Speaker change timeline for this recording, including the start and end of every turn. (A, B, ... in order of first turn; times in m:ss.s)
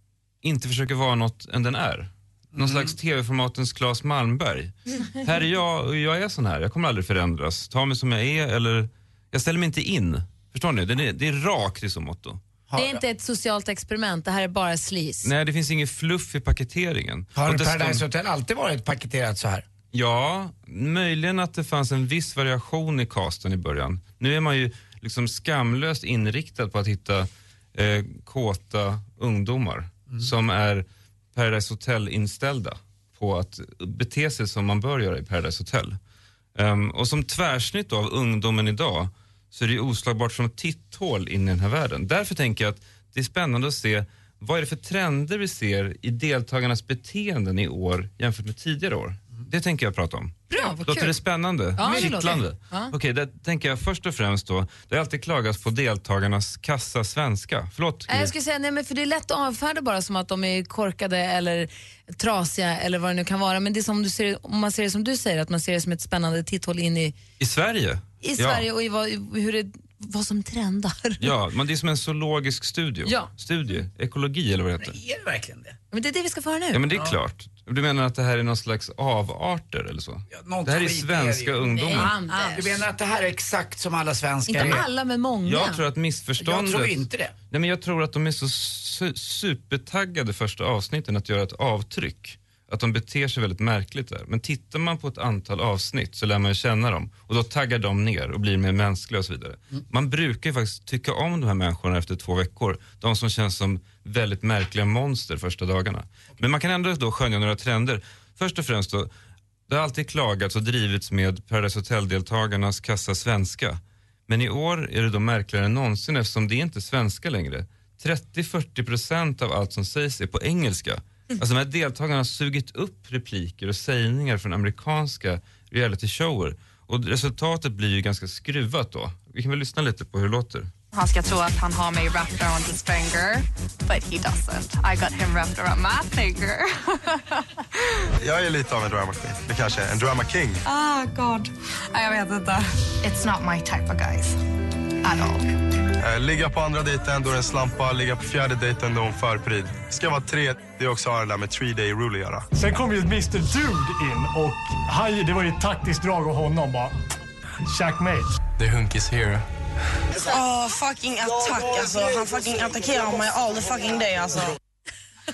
0:00.4-0:12.4 A
0:02.6-0:02.9 B
0:12.7-0:13.0 B
0:12.8-0:15.3 C
0:15.2-0:18.0 A
0:17.4-0:19.7 B
0:19.9-0:36.0 A
0:36.6-0:58.3 A
0:50.5-0:51.2 C
0:51.8-0:52.9 C
0:58.1-1:07.2 C
1:07.4-1:08.6 A
1:08.2-1:11.3 C
1:11.2-1:15.0 A
1:13.0-1:13.3 C
1:14.8-1:15.8 B
1:15.9-1:16.9 C
1:16.7-1:22.2 A
1:16.9-1:17.2 B
1:20.3-1:24.8 B
1:21.8-1:22.8 C
1:24.5-1:25.8 C
1:25.4-1:49.1 A
1:26.4-1:27.3 B
1:49.7-2:10.7 A
2:10.9-2:17.4 D
2:18.2-2:20.6 E
2:20.7-2:21.5 F
2:21.9-2:24.4 D
2:25.0-2:25.5 D
2:26.0-2:32.5 E
2:32.5-2:37.0 G
2:37.6-2:38.3 G
2:38.6-2:39.4 E
2:40.2-2:44.6 F